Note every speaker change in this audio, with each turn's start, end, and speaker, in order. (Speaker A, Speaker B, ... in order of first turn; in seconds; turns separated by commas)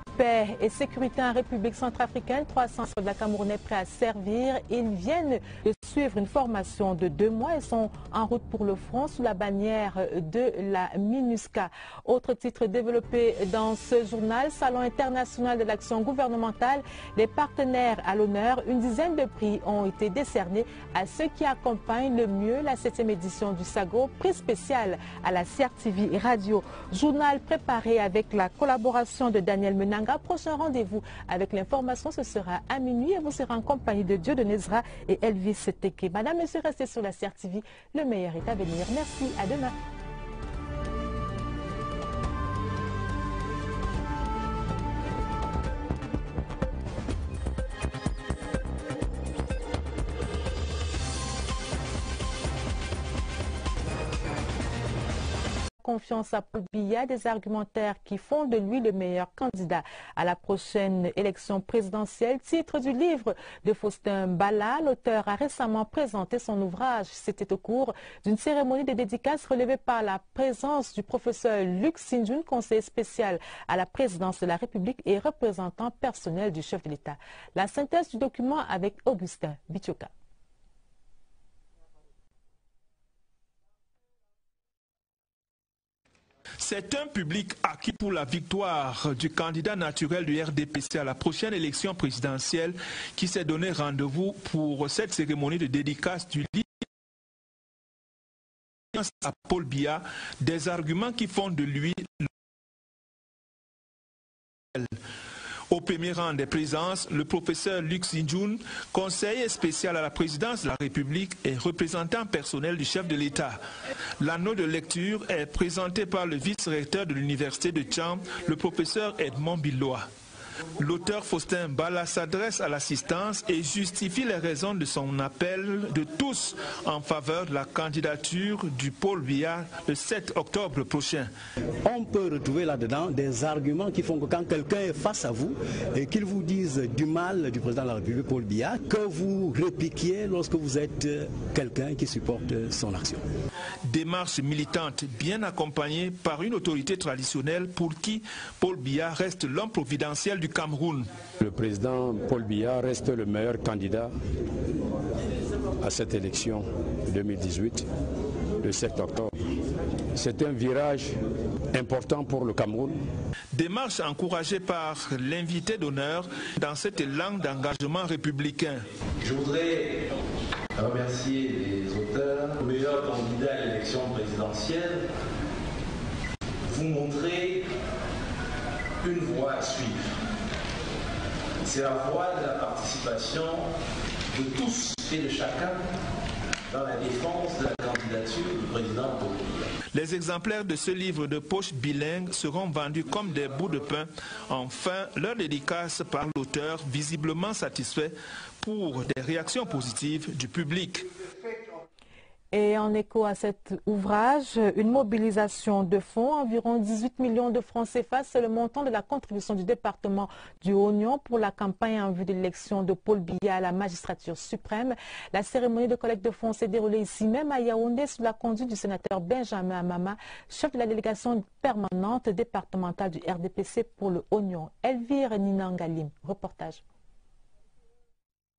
Speaker A: 0.2-39.7, Speaker A: 55.8-80.1, Speaker B: 86.6-96.7, Speaker B: 99.0-102.1, Speaker B: 105.7-113.6, Speaker B: 114.2-120.1, Speaker B: 120.8-131.3, Speaker C: 131.8-143.2, Speaker B: 143.9-151.1, Speaker D: 151.4-154.1, Speaker D: 155.8-157.9, Speaker D: 158.6-159.3, Speaker D: 160.2-161.2, Speaker D: 161.7-163.0, Speaker B: 163.5-168.8, Speaker E: 169.2-170.0, Speaker E: 170.8-175.0, Speaker E: 176.7-177.7, Speaker E: 179.0-180.0, Speaker E: 181.6-183.7, Speaker E: 184.3-185.8, Speaker E: 186.7-189.6, Speaker B: 189.9-201.1, Speaker A: 202.5-226.8